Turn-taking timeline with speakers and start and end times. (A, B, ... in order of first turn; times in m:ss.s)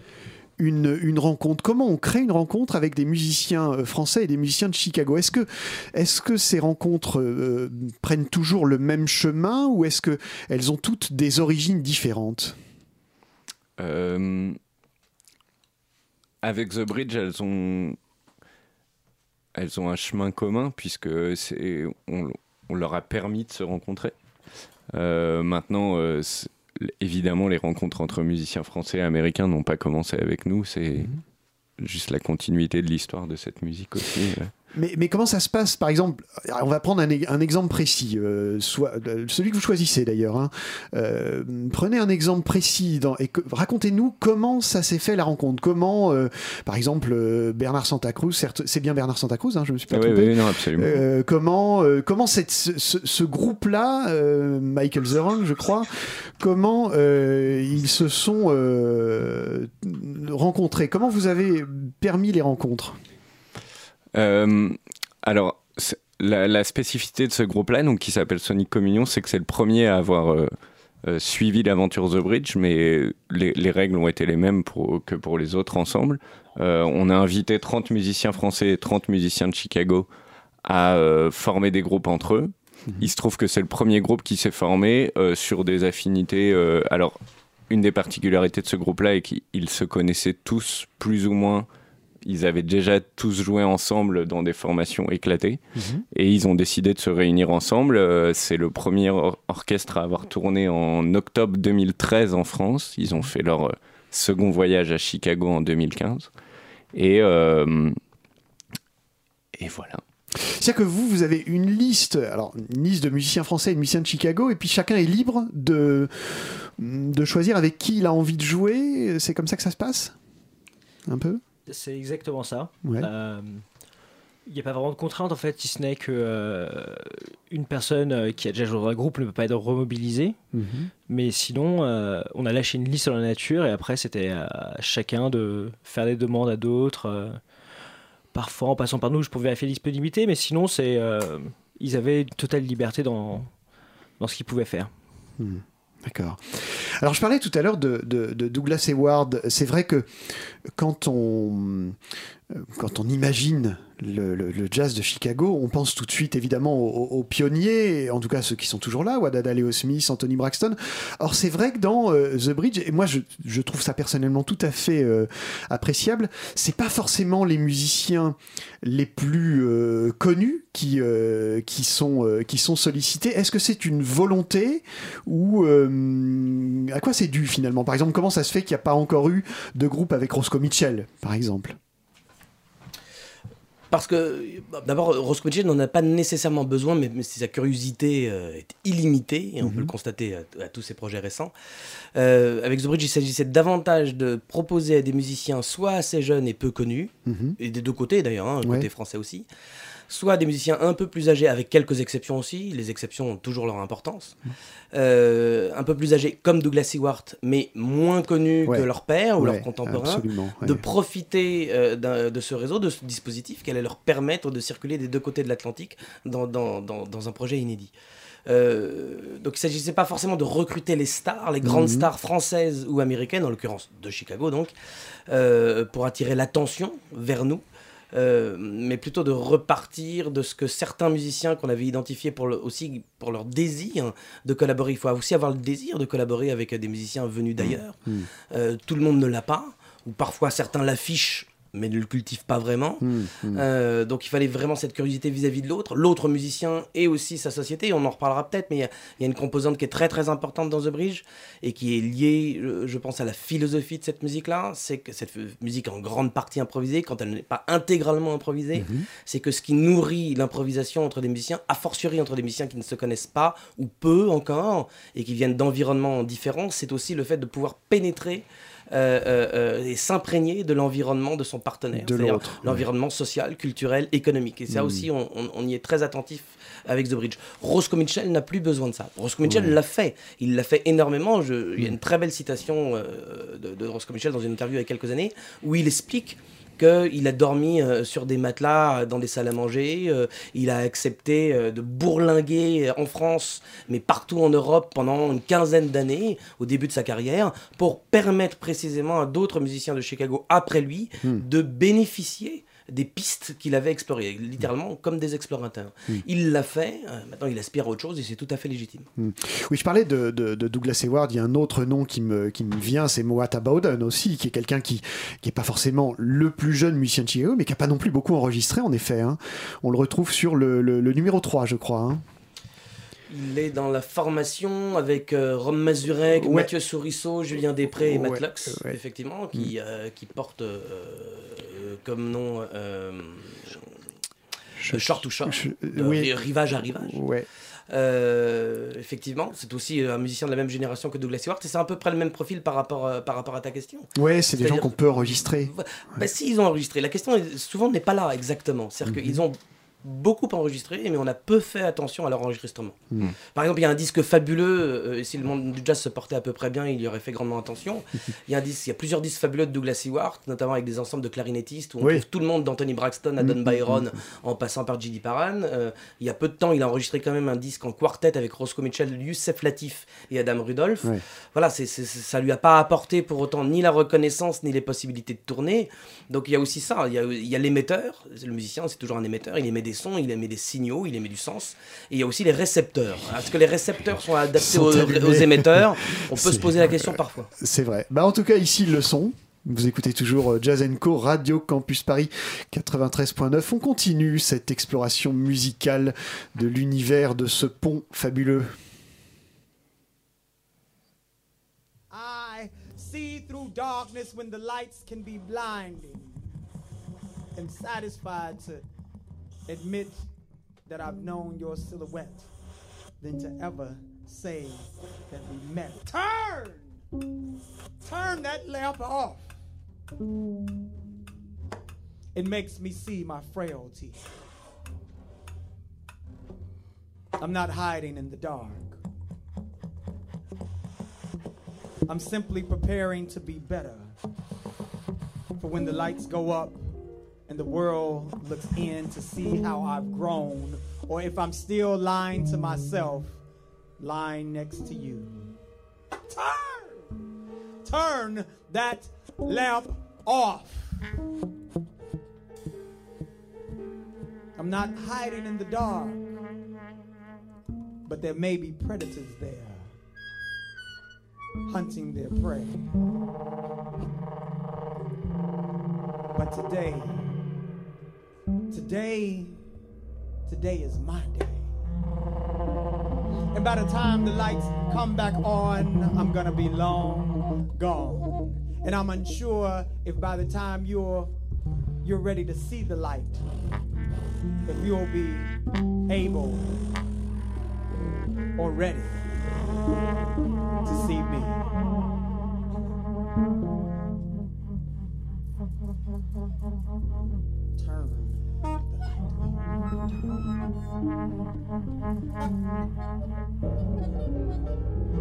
0:00.6-0:12.6 A
0:13.8-0:14.6 B
0:16.4-0:18.0 B
0:19.6-0:24.1 B
0:24.9-0:31.1 B
0:31.8-0:34.5 B
0:34.7-1:03.0 A
0:49.9-0:51.0 B
1:04.1-1:20.1 B
1:20.6-1:27.2 B
1:27.7-1:31.7 B
1:32.2-1:35.6 B
1:35.7-1:36.0 A
1:36.1-1:46.3 B
1:46.9-1:48.0 B
1:49.6-1:50.0 B
1:50.4-2:00.1 A
2:01.1-2:01.4 A
2:01.7-2:03.6 C
2:04.5-2:10.4 C
2:10.5-2:10.9 A
2:11.1-2:17.4 C
2:18.3-2:23.5 C
2:24.2-2:24.9 C
2:25.4-2:32.0 A
2:32.5-3:01.8 A
3:03.9-3:11.5 D
3:09.6-3:09.9 A
3:12.1-3:19.5 D
3:17.2-3:17.6 A
3:20.1-3:24.4 D
3:24.9-3:37.9 D
3:29.4-3:30.8 A
3:38.5-3:44.7 D
3:41.6-3:42.1 A
3:45.3-3:58.0 D
3:57.6-3:58.3 A
3:58.5-5:09.1 D
4:03.0-4:03.6 A
4:18.8-4:19.1 A
4:31.9-4:32.8 A
4:34.7-4:35.1 A
4:39.4-4:39.8 A
5:09.2-5:22.2 A
5:23.3-5:33.8 D
5:26.4-5:26.7 A
5:28.0-5:29.0 A
5:34.8-5:36.3 A
5:34.9-5:37.2 D
5:37.0-5:37.5 A
5:37.9-6:27.5 D
5:44.2-5:46.2 A
5:49.1-5:49.4 A
6:03.4-6:04.1 A
6:24.6-6:38.7 A
6:42.1-6:46.6 E
6:47.5-6:48.8 E
6:49.7-6:50.3 E
6:50.8-6:52.5 E
6:53.2-6:57.0 E
6:58.0-6:59.5 E
7:02.3-7:04.2 E
7:07.4-7:09.0 E
7:12.1-7:14.2 E
7:15.6-7:16.9 E
7:17.5-7:23.4 E
7:24.0-7:25.3 E
7:26.3-7:27.1 E
7:27.8-7:31.0 E
7:34.6-7:36.2 E
7:38.0-7:40.0 E
7:41.7-7:42.9 E
7:46.3-7:47.3 E
7:48.7-7:49.7 E
7:50.4-7:51.7 E
7:53.5-8:01.3 E
8:02.0-8:03.5 E
8:04.6-8:05.6 E
8:06.1-8:06.8 E
8:08.6-8:09.3 E
8:10.8-8:11.7 E
8:17.8-8:19.6 E